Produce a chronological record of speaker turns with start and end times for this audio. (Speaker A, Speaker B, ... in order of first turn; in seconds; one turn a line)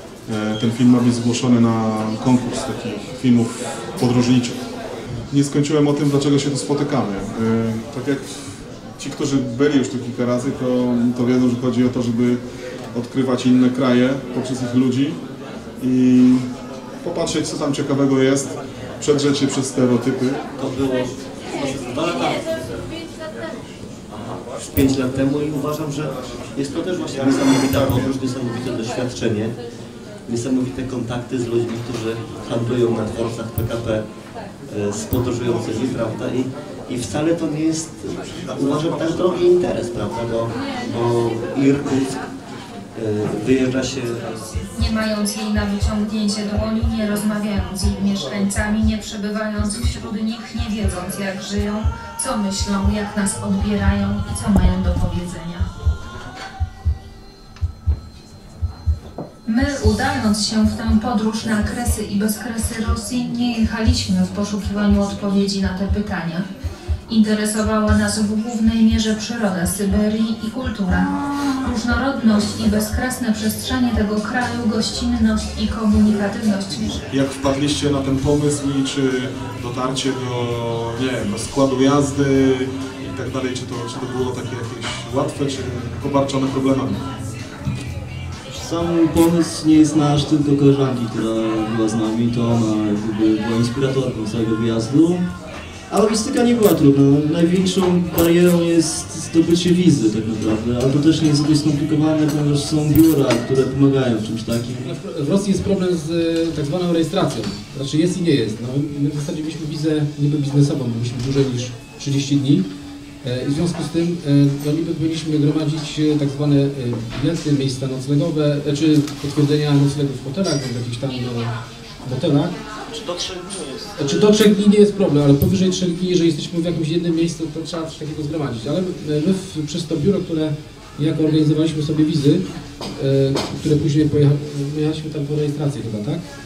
Speaker A: 0.3-4.6
Speaker A: 5.3-12.4
Speaker A: 12.9-15.2
Speaker A: 15.8-16.5
Speaker A: 17.0-20.4
Speaker B: 20.6-22.9
Speaker B: 24.6-29.6
Speaker B: 30.2-34.0
Speaker B: 34.6-42.2
Speaker B: 42.9-44.6
Speaker C: 44.7-55.6
Speaker C: 59.4-66.5
Speaker C: 67.1-77.0
Speaker A: 77.1-87.0
Speaker D: 88.5-95.2
Speaker D: 95.9-104.9
Speaker E: 104.8-112.7
Speaker E: 113.2-122.6
Speaker D: 122.9-124.0
Speaker E: 124.0-136.2